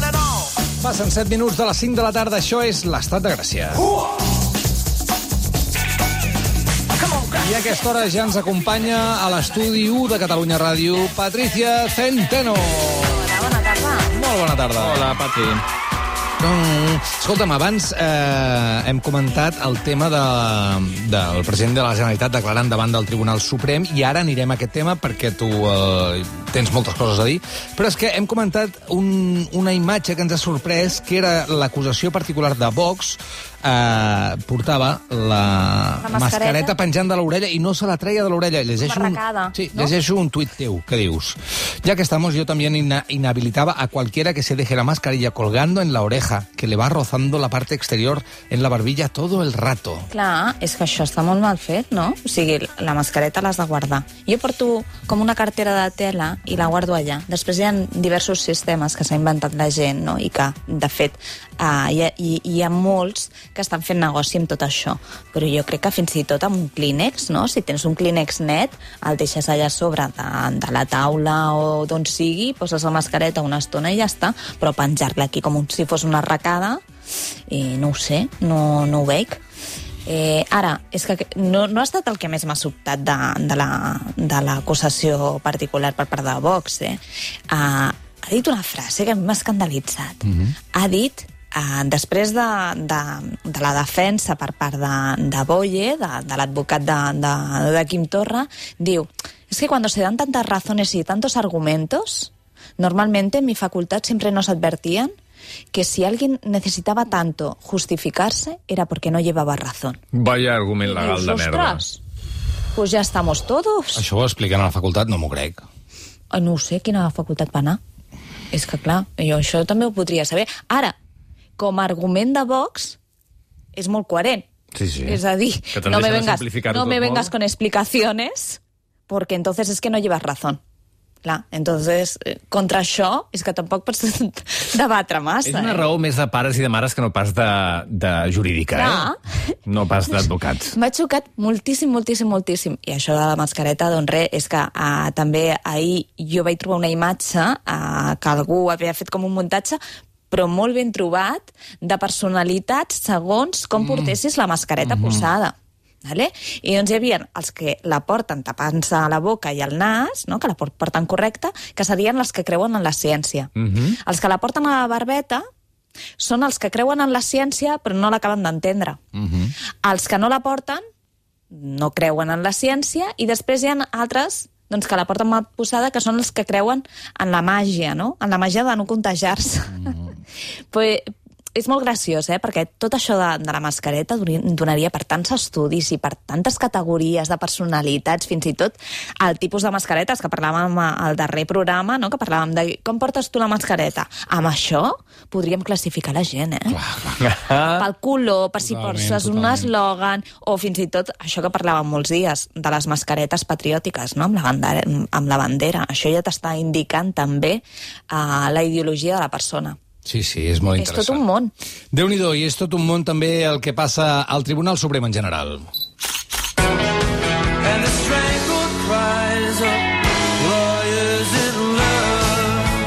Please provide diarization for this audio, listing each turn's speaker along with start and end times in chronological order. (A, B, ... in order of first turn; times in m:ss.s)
0:00.8-0:03.8 A
0:07.3-0:13.2 A
0:13.1-0:14.1 B
0:14.1-0:15.2 A
0:14.8-0:15.6 C
0:16.4-0:50.1 A
0:36.0-0:36.7 B
0:38.8-0:39.9 B
0:50.1-1:16.8 B
1:17.5-1:19.4 B
1:20.0-1:45.1 B
1:45.7-1:50.0 B
1:50.1-1:51.8 C
1:50.8-1:52.0 B
1:52.7-1:54.0 B
1:54.0-1:55.6 A
1:56.3-1:57.8 B
1:58.5-2:00.9 B
2:01.6-2:03.0 B
2:03.7-2:04.4 B
2:04.7-2:05.2 C
2:05.0-2:10.6 B
2:05.7-2:07.3 C
2:11.2-2:15.8 B
2:15.4-2:19.1 C
2:18.7-2:19.6 B
2:19.6-2:20.7 C
2:20.7-2:29.8 B
2:30.3-2:45.4 B
2:43.6-2:44.0 C
2:46.2-2:49.0 B
2:49.2-2:49.5 C
2:49.8-2:50.8 B
2:51.5-3:00.1 B
3:00.7-3:16.8 B
3:16.7-3:17.3 A
3:17.2-3:17.8 C
3:17.7-3:29.8 B
3:18.6-3:19.7 A
3:30.0-3:31.2 A
3:30.8-3:31.5 B
3:31.9-3:35.7 A
3:37.6-3:39.9 C
3:40.4-3:42.3 C